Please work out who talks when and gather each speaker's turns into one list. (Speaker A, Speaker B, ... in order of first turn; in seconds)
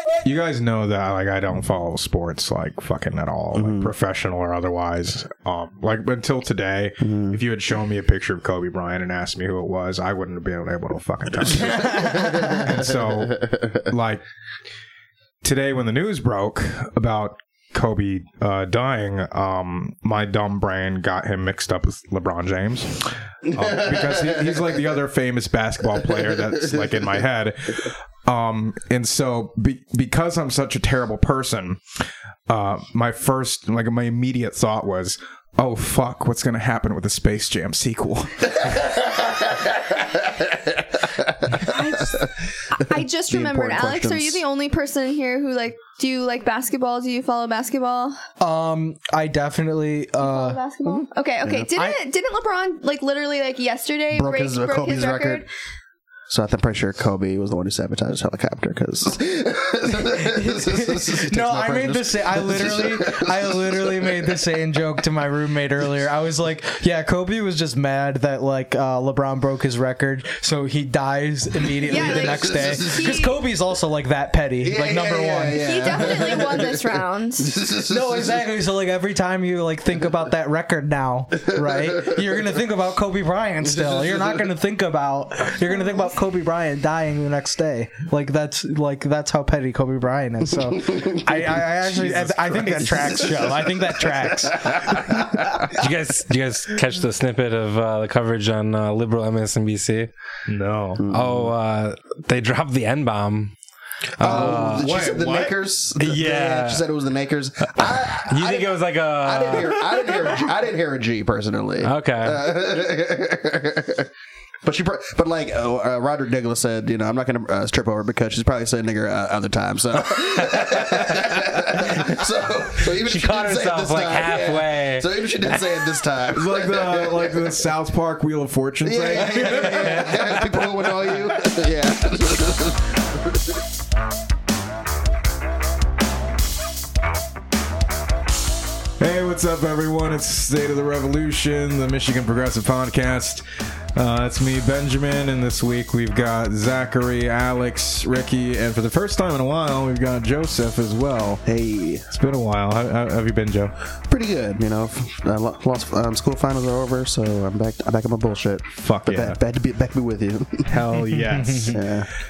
Speaker A: 0.2-14.2, 15.4-31.8, 32.5-38.6, 92.2-93.2, 100.5-101.0, 104.2-105.6, 126.3-131.6, 139.0-151.4, 152.1-153.7, 158.7-159.4, 160.7-161.9
Speaker B: 3.5-3.9, 7.0-7.4, 11.5-13.1, 23.5-24.8, 26.0-27.2, 38.9-42.6, 43.3-44.4, 54.1-55.4, 56.3-64.4, 71.9-73.1, 74.6-78.4, 83.7-84.3, 90.9-95.9, 101.0-101.5, 104.2-114.1, 114.6-127.6, 128.8-133.6, 151.5-152.1, 154.1-161.0, 161.7-162.1
Speaker C: 41.7-48.2, 50.2-55.5, 71.8-73.4, 75.5-77.5
Speaker D: 48.4-51.1, 60.2-76.7, 77.8-94.8, 161.3-161.8
Speaker E: 95.7-100.1, 101.1-103.5, 104.2-104.9, 106.0-106.9, 107.8-110.1, 111.8-112.5, 121.8-122.2, 122.8-126.0